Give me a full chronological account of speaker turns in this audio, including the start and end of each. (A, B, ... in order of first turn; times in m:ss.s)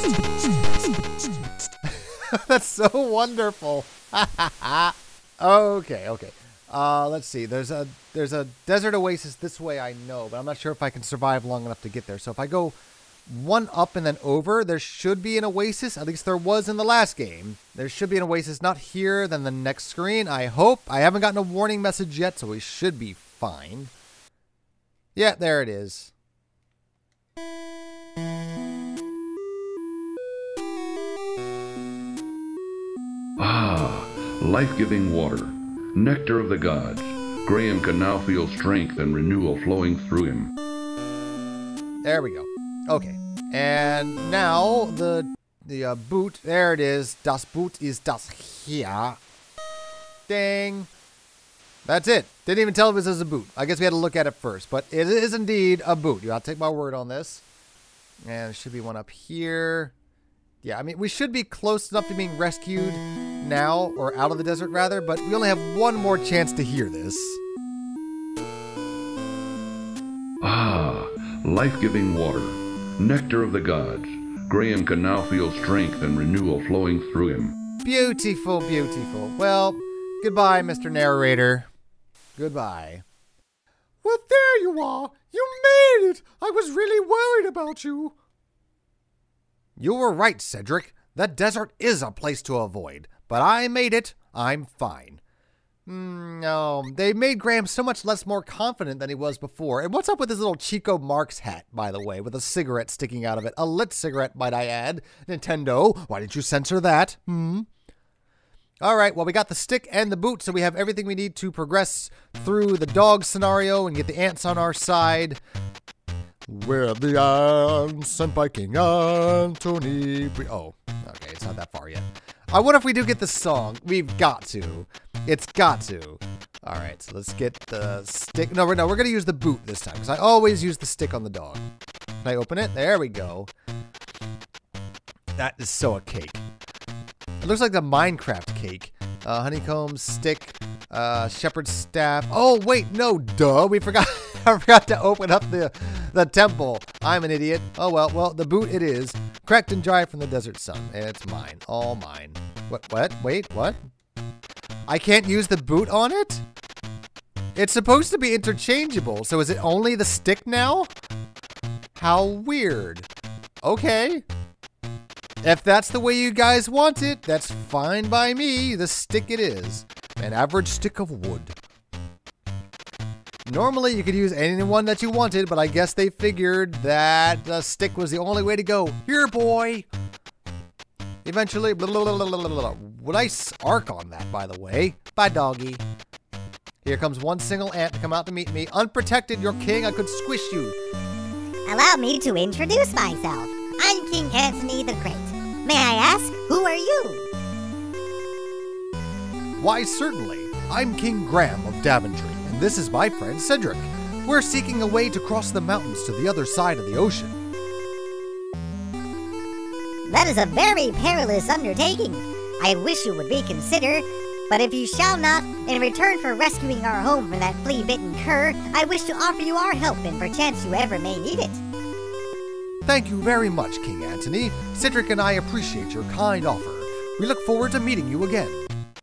0:01.8-0:12.8 A
0:13.3-0:23.9 A
0:25.2-0:26.1 A
0:33.4-0:40.5 B
0:42.0-0:49.2 A
0:50.3-0:50.9 A
0:51.8-0:57.4 A
0:58.3-0:59.9 A
1:00.6-1:07.4 A
1:10.4-1:17.6 B
1:17.8-1:21.7 A
1:22.4-1:23.0 A
1:24.0-1:28.2 A
1:29.8-1:35.2 A
1:35.9-1:47.7 A
1:48.8-1:55.4 A
1:56.5-2:11.6 A
2:12.2-2:13.5 A
2:15.4-2:16.4 A
2:17.4-2:33.8 A
2:34.9-2:36.4 A
2:37.6-2:40.9 A
2:42.0-2:43.1 A
2:43.6-2:44.2 A
2:45.4-2:51.6 A
2:53.5-2:59.9 A
3:01.2-3:05.8 A
3:06.8-3:10.8 A
3:11.7-3:17.3 C
3:19.6-3:27.4 A
3:30.1-3:41.6 C
3:42.8-3:48.7 A